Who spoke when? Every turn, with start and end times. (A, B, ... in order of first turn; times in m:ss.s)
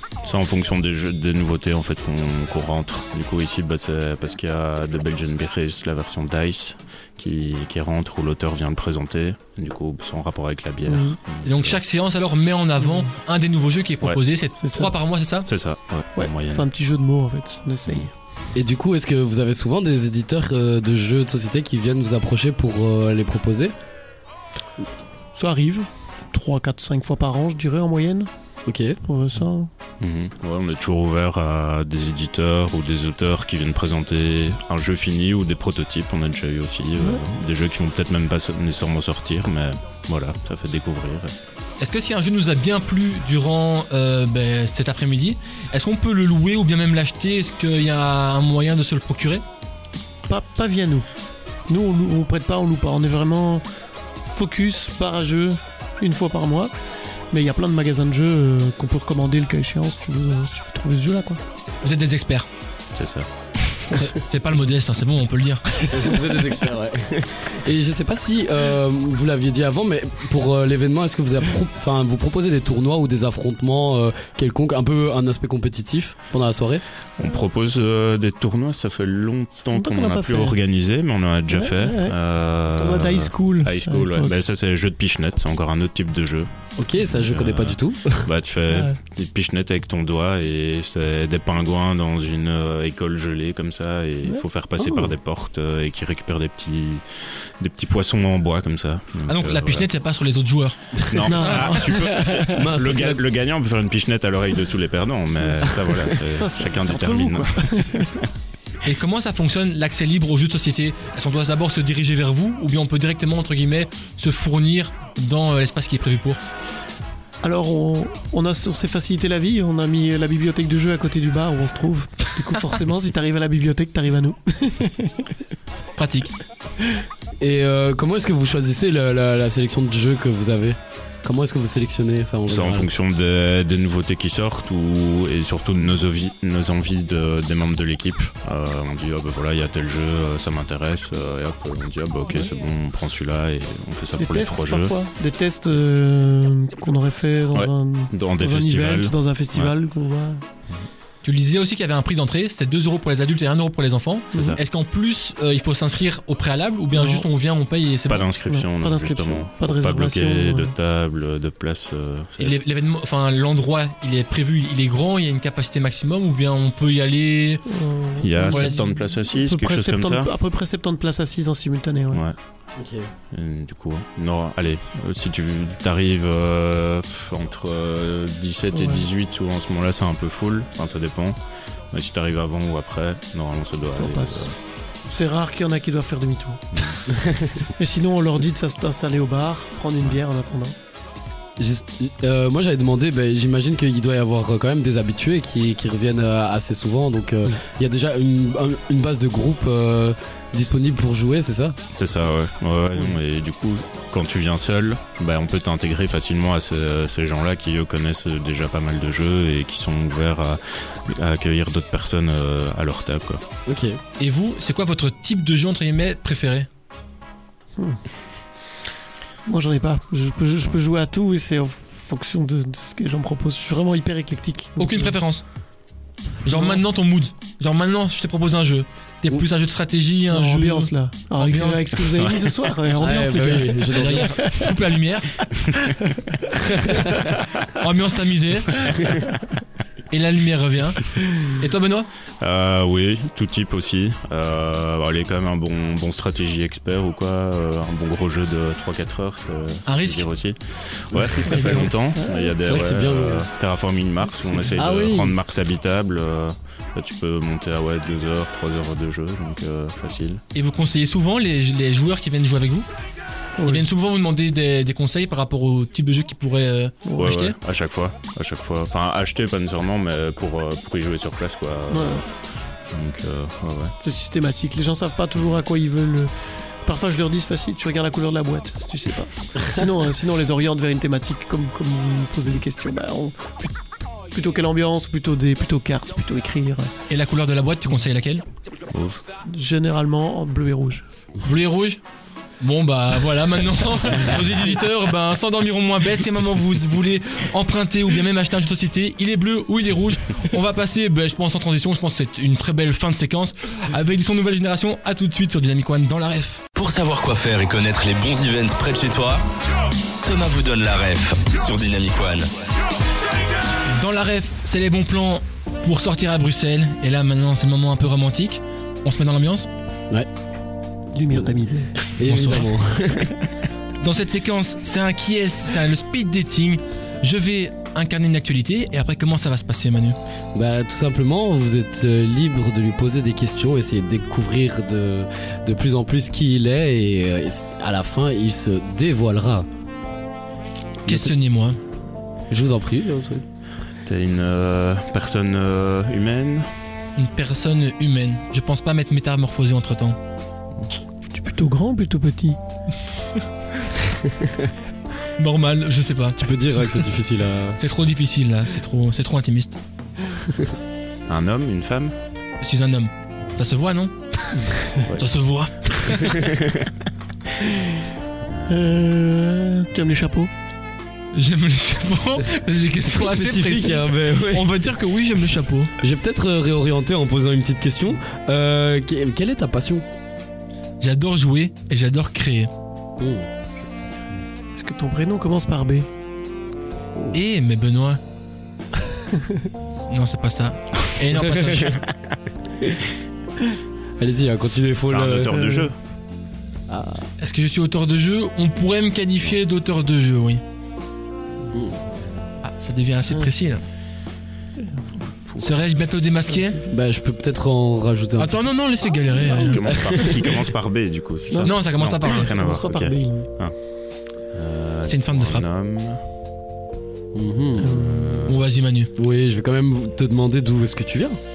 0:00.2-0:11.8 A
0:10.8-0:11.2 B
0:11.4-0:15.5 C
0:12.8-0:13.1 B
0:14.6-0:14.9 B
0:15.5-0:16.7 A
0:16.2-0:18.1 B
0:18.6-0:23.7 D
0:25.3-0:28.3 B
0:28.7-0:29.0 D
0:29.0-0:29.7 B
0:30.0-0:41.3 A
0:41.8-0:49.4 C
0:50.3-0:51.1 B
0:51.7-0:53.6 B
0:54.2-0:56.7 B
0:57.3-1:01.4 B
1:01.8-1:02.5 C
1:03.0-1:03.8 A
1:03.9-1:06.2 C
1:05.9-1:16.8 D
1:17.2-1:26.5 A
1:19.7-1:20.6 B
1:21.5-1:22.2 B
1:22.8-1:24.3 B
1:26.8-1:28.3 D
1:27.1-1:39.9 A
1:28.7-1:29.0 B
1:34.8-1:35.1 D
1:39.3-1:40.8 C
1:41.0-1:41.3 D
1:41.1-1:48.1 A
1:41.3-1:42.7 B
1:41.8-1:43.2 D
1:45.4-1:45.8 B
1:46.3-1:48.2 B
1:48.8-1:56.4 C
1:57.4-2:05.3 B
2:06.0-2:06.4 C
2:07.4-2:12.9 D
2:12.5-2:25.0 A
2:24.2-2:30.4 B
2:27.5-2:29.8 A
2:31.2-2:38.3 C
2:34.3-2:34.6 B
2:34.4-2:34.6 A
2:37.0-2:37.3 B
2:38.1-2:42.6 A
2:38.5-2:40.7 B
2:42.4-2:47.6 C
2:47.7-2:52.2 B
2:48.2-2:50.3 A
2:48.5-2:48.8 C
2:52.1-2:52.4 A
2:52.8-2:53.1 D
2:53.3-3:01.4 A
2:58.7-2:59.0 B
3:01.9-3:04.5 A
3:04.0-3:04.5 B
3:05.1-3:06.6 B
3:06.7-3:07.0 A
3:07.8-3:10.8 B
3:11.6-3:21.8 D
3:22.0-3:33.4 A
3:33.7-3:34.0 D
3:34.2-3:36.7 C
3:39.5-3:45.2 B
3:44.8-3:45.4 C
3:46.4-3:52.1 C
3:46.5-3:46.8 B
3:50.3-3:54.7 B
3:53.0-3:54.5 D
3:53.9-3:55.3 C
3:55.7-3:57.3 B
3:57.8-3:58.8 C
4:00.1-4:02.1 C
4:02.4-4:20.4 A
4:09.9-4:10.3 C
4:11.5-4:12.5 B
4:12.6-4:13.5 D
4:14.4-4:14.8 B
4:14.8-4:15.4 D
4:20.6-4:22.9 C
4:23.6-4:23.8 B
4:23.6-4:27.6 C
4:27.2-4:32.3 A
4:31.9-4:32.2 B
4:32.9-4:34.0 A
4:34.0-4:36.3 B
4:36.8-4:46.9 B
4:47.1-4:48.4 C
4:48.9-4:49.2 A
4:49.5-4:51.1 B
4:51.4-4:52.0 C
4:52.6-5:06.6 C
5:06.8-5:09.4 E
5:10.2-5:12.5 E
5:13.9-5:19.7 C
5:21.1-5:22.0 B
5:21.3-5:23.4 D
5:22.2-5:22.7 C
5:24.0-5:30.2 C
5:30.5-5:39.7 D
5:41.1-5:41.8 C
5:41.1-5:41.3 D
5:42.5-5:43.5 D
5:44.0-5:46.7 A
5:47.2-5:50.2 C
5:51.3-5:52.6 B
5:55.4-5:56.4 C
5:56.4-5:57.8 D
5:57.8-5:59.8 C
6:00.3-6:00.7 D
6:01.3-6:02.2 A
6:02.6-6:06.5 C
6:06.1-6:06.9 A
6:08.7-6:10.5 B
6:11.3-6:16.0 C
6:13.0-6:14.8 D
6:16.0-6:20.1 D
6:21.0-6:22.7 C
6:23.2-6:23.5 D
6:24.8-6:26.1 B
6:27.3-6:28.2 C
6:30.1-6:32.0 C
6:31.3-6:32.0 D
6:34.2-6:35.6 D
6:35.0-6:36.0 A
6:35.5-6:35.9 B
6:36.9-6:37.3 D
6:37.4-6:40.6 C
6:41.7-6:42.0 D
6:42.6-6:43.8 C
6:45.6-6:46.8 C
6:46.9-6:48.7 D
6:48.4-6:49.8 C
6:49.5-6:53.8 A
6:49.9-6:50.5 D
6:51.5-6:53.5 B
6:51.6-6:52.5 C
6:54.5-6:56.2 A
6:55.1-6:55.6 C
6:57.3-6:58.0 D
6:57.8-6:58.6 A
6:57.8-6:58.5 B
6:58.5-6:59.1 C
6:59.2-7:01.4 D